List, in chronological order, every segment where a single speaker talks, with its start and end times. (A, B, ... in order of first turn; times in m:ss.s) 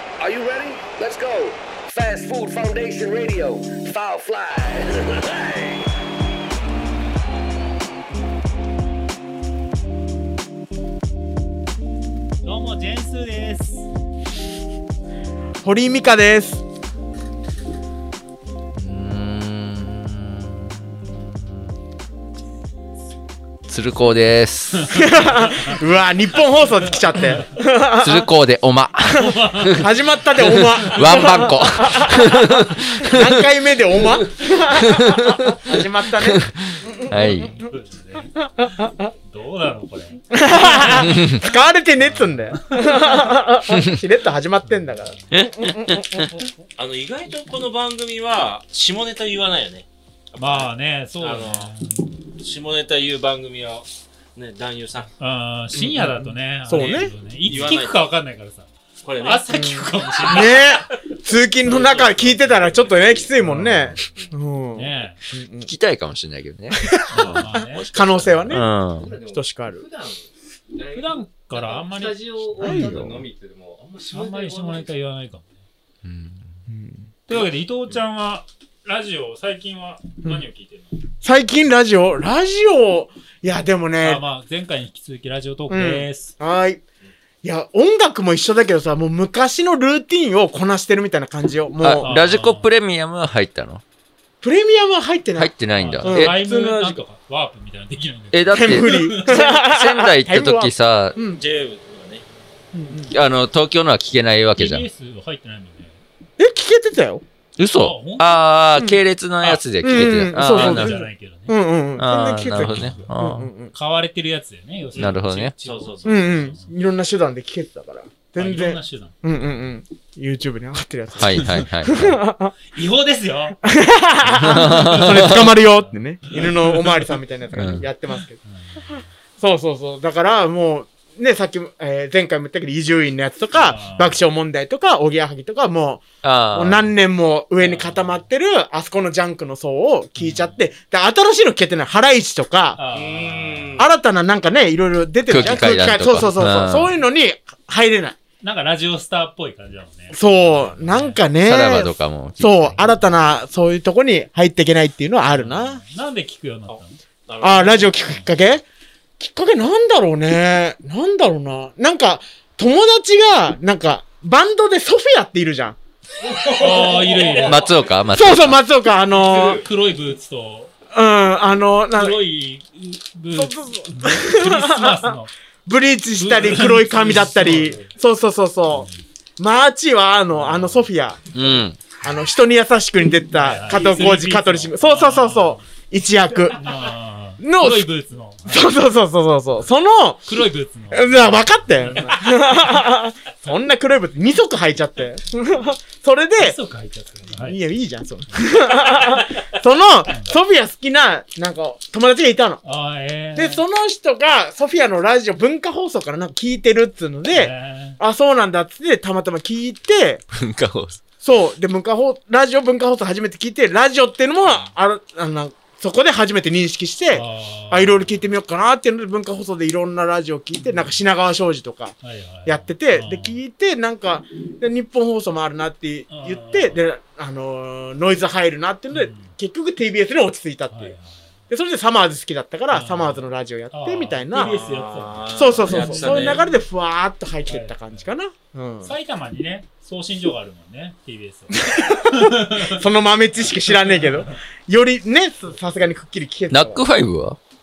0:00.2-0:05.9 A
0:12.4-0:13.9 B
0:15.6-0:16.6 C
0:18.7-0:21.4 D
0:23.7-0:25.0 D
0:24.9-0:28.3 C
0:28.0-0:29.9 D
0:29.1-0:37.6 C
0:29.2-0:29.8 B
0:30.5-0:33.4 D
0:34.8-0:35.6 D
0:36.2-0:37.6 D
0:37.3-0:41.4 B
0:38.6-0:39.1 C
0:40.3-0:46.3 C
0:41.0-0:41.4 D
0:42.0-0:43.3 B
0:44.6-0:45.2 B
0:45.3-0:51.7 E
0:50.4-0:52.0 B
0:52.4-0:55.1 E
0:55.2-1:00.7 B
0:55.7-0:57.1 C
0:57.4-0:58.0 E
0:59.0-0:59.5 E
0:59.5-1:05.7 C
1:00.1-1:00.9 E
1:01.6-1:03.3 E
1:03.4-1:04.0 B
1:04.7-1:05.2 B
1:05.7-1:07.4 D
1:06.7-1:09.9 C
1:07.1-1:07.9 B
1:07.6-1:08.5 E
1:08.2-1:14.9 F
1:08.5-1:09.2 D
1:10.9-1:13.0 B
1:12.6-1:13.2 C
1:14.1-1:15.5 B
1:16.0-1:16.6 D
1:16.7-1:17.1 C
1:17.3-1:21.0 B
1:21.2-1:24.2 C
1:24.0-1:26.4 B
1:25.7-1:26.8 C
1:27.4-1:32.1 C
1:31.8-1:33.8 D
1:32.0-1:32.7 B
1:34.4-1:35.5 C
1:35.4-1:36.3 D
1:35.8-1:39.4 B
1:36.0-1:37.0 C
1:38.3-1:41.2 D
1:38.5-1:41.4 C
1:41.3-1:42.2 E
1:42.7-1:43.1 C
1:43.1-1:44.9 D
1:44.6-1:46.0 B
1:46.4-1:47.2 C
1:47.6-1:51.0 D
1:47.8-1:48.6 B
1:48.8-1:49.0 C
1:49.4-1:49.7 B
1:49.8-1:53.7 C
1:50.3-1:51.6 B
1:52.0-1:53.5 D
1:52.6-1:53.1 B
1:53.7-1:56.7 B
1:54.9-1:56.3 E
1:55.0-1:55.5 D
1:56.0-2:02.5 C
1:58.4-1:59.2 B
2:01.2-2:02.2 D
2:01.4-2:01.6 B
2:02.7-2:03.6 B
2:03.6-2:22.8 C
2:04.2-2:05.5 D
2:04.6-2:07.1 B
2:07.5-2:07.9 D
2:08.4-2:09.1 B
2:13.6-2:14.2 B
2:16.2-2:16.9 D
2:17.6-2:18.2 B
2:20.2-2:20.7 B
2:22.8-2:23.8 B
2:22.9-2:23.9 E
2:23.8-2:28.2 C
2:25.2-2:26.9 D
2:28.4-2:31.2 B
2:30.1-2:35.8 C
2:31.4-2:32.9 D
2:35.2-2:37.0 B
2:36.7-2:38.0 E
2:37.4-2:38.6 C
2:38.0-2:38.6 B
2:39.2-2:45.8 C
2:46.3-2:47.4 F
2:46.5-2:47.7 B
2:47.4-2:48.6 D
2:48.1-2:49.6 C
2:49.1-2:50.7 B
2:50.9-2:52.2 C
2:51.9-2:55.3 B
2:53.3-3:01.2 C
2:56.2-2:57.9 B
2:58.7-2:59.0 B
3:00.3-3:00.9 B
3:01.3-3:02.0 D
3:02.0-3:06.6 C
3:03.3-3:05.6 B
3:06.5-3:08.7 B
3:07.4-3:07.9 C
3:08.5-3:10.2 C
3:10.2-3:12.3 B
3:10.9-3:16.6 C
3:16.4-3:17.6 B
3:17.3-3:22.6 C
3:22.6-3:23.6 B
3:23.3-3:30.2 C
3:27.3-3:28.0 B
3:30.3-3:31.0 D
3:31.2-3:50.9 C
3:34.4-3:34.7 B
3:37.1-3:38.3 B
3:40.6-3:41.0 B
3:42.0-3:43.4 B
3:46.1-3:46.8 B
3:48.9-3:49.3 B
3:50.7-3:51.3 B
3:51.5-3:54.6 C
3:52.7-3:56.6 B
3:54.3-3:56.4 E
3:55.3-3:58.9 C
3:57.5-3:58.1 B
3:58.8-4:02.8 B
4:01.6-4:06.8 C
4:03.7-4:04.4 B
4:06.5-4:07.4 D